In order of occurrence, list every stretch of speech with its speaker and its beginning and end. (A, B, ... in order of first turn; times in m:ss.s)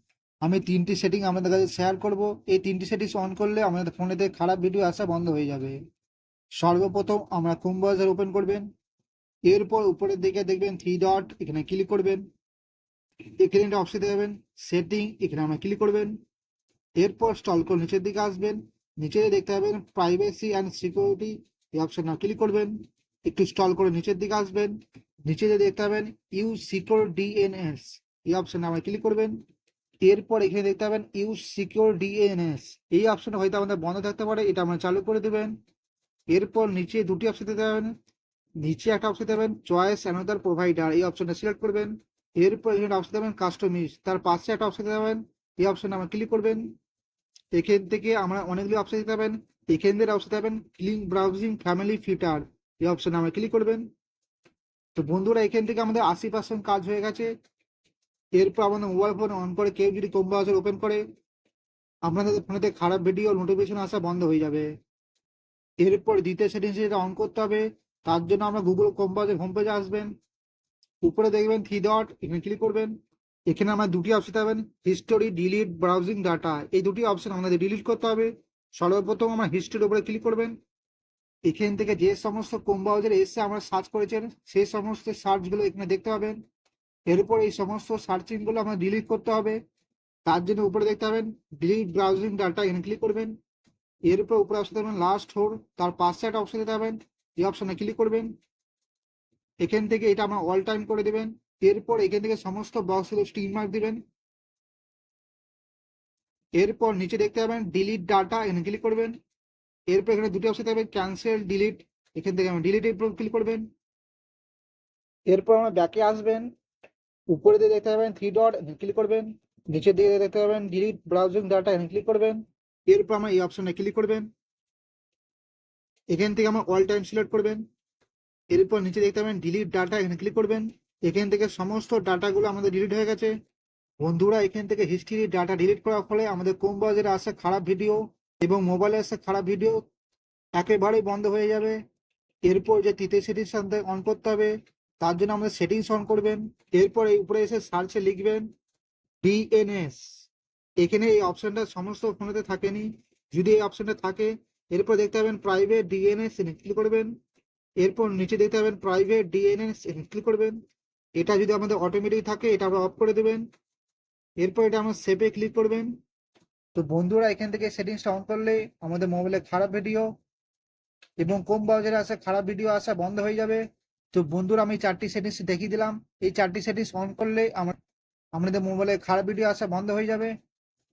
0:00.4-0:05.8 A
0:06.6-0:08.6 A
0:09.5-0:12.2 A
0:13.4-0:16.1 A
0:17.0-0:22.7 A
0:23.3-0:24.8 A
0:25.3-0:29.4 A
0:30.0-0:35.5 A
0:36.3-0:37.9 A
0:38.6-0:46.6 A
0:47.5-0:53.8 A
0:55.0-0:57.3 A
0:58.4-1:01.0 A
1:02.0-1:04.7 A
1:05.8-1:10.1 A
1:11.0-1:12.9 A
1:13.5-1:20.5 A
1:21.4-1:26.4 A
1:27.1-1:29.6 A
1:30.2-1:33.3 A
1:34.1-1:38.3 A
1:39.6-1:44.0 A
1:46.6-1:49.1 A
1:49.9-1:53.6 A
1:55.3-1:56.5 A
1:57.3-2:04.3 A
2:06.1-2:07.6 A
2:08.5-2:13.3 A
2:14.0-2:19.8 A
2:20.6-2:21.8 A
2:22.4-2:28.5 A
2:29.2-2:30.0 A
2:30.8-2:37.1 A
2:37.8-2:40.6 A
2:41.2-2:43.4 A
2:44.4-2:45.9 A
2:46.7-2:50.0 A
2:51.2-2:57.7 A
2:58.3-3:00.3 A